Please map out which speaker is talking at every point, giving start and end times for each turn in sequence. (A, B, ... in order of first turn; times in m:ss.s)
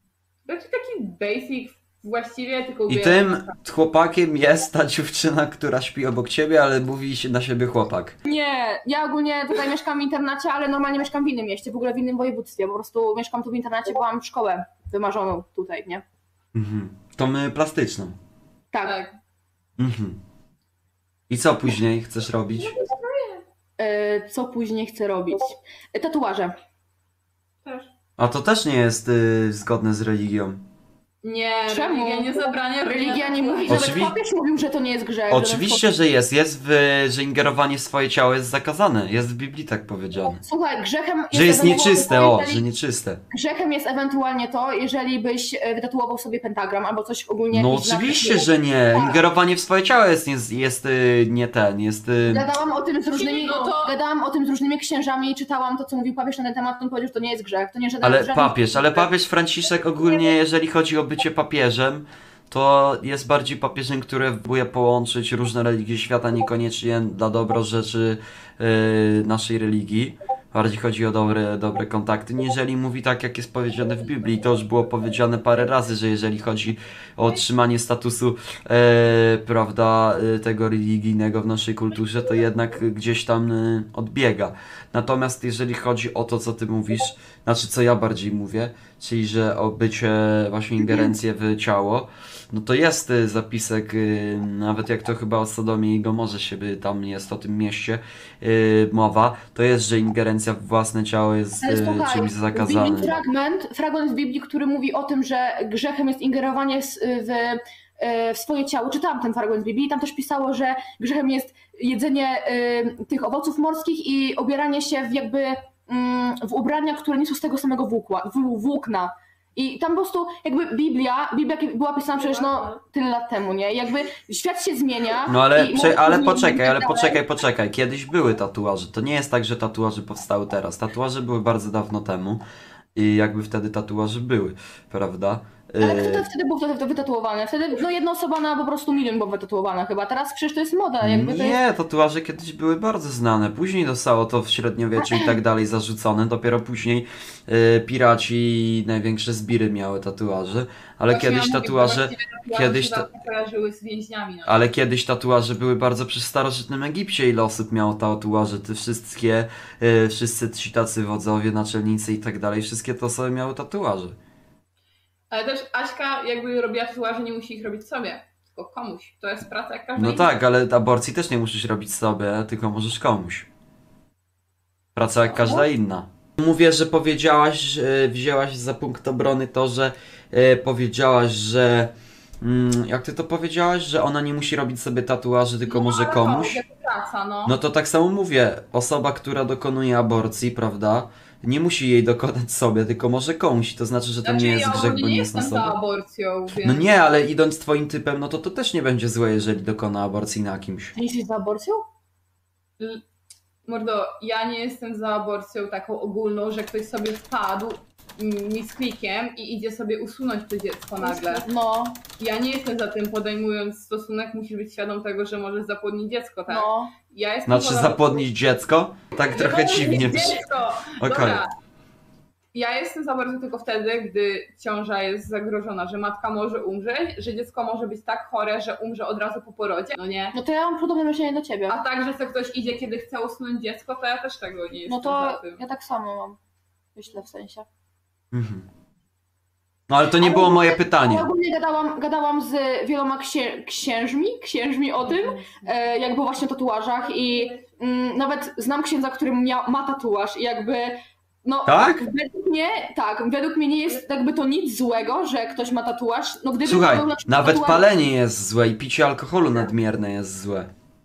0:00.5-0:03.5 A
0:02.9-0:08.2 B
0:08.2-0:16.0 C
0:16.5-0:18.2 B
0:18.7-0:19.0 C
0:18.8-0:19.2 A
0:19.8-0:20.2 B
0:21.3-0:22.8 B
0:22.8-0:23.4 A
0:23.8-0:26.5 C
0:28.2-0:30.6 B
0:31.2-0:33.9 A
0:31.6-0:35.8 C
0:33.7-0:34.2 B
0:35.3-0:40.4 B
0:40.4-0:42.6 C
0:41.3-0:43.2 B
0:43.3-0:49.2 C
0:47.5-0:52.5 B
0:52.3-0:59.1 C
0:53.1-0:53.9 A
0:58.0-1:43.2 B
1:41.6-2:07.2 C
2:02.3-2:02.7 A
2:05.3-2:12.4 B
2:13.0-2:16.2 B
2:15.8-2:21.6 C
2:21.0-2:33.1 B
2:25.0-2:25.4 C
2:31.1-2:34.7 A
2:34.5-2:44.2 B
2:45.3-2:50.3 A
2:50.0-2:53.5 B
2:55.0-3:06.6 B
2:55.3-2:55.6 C
3:05.6-3:07.6 A
3:07.5-3:15.8 B
3:14.2-3:16.9 A
3:16.6-3:20.9 B
3:21.0-3:21.8 C
3:23.7-3:31.4 A
3:31.0-3:32.0 C
3:32.2-3:38.2 A
3:36.5-3:36.9 C
3:37.5-3:40.4 B
3:39.2-3:41.5 A
3:41.0-3:41.4 B
3:42.5-3:50.4 A
3:50.3-3:51.8 C
3:51.7-3:55.6 A
3:54.9-3:56.4 C
3:57.0-3:57.6 C
3:58.3-3:58.6 B
3:59.9-4:01.3 B
4:00.0-4:17.9 C
4:05.0-4:05.6 A
4:11.6-4:12.0 B
4:16.6-4:20.7 B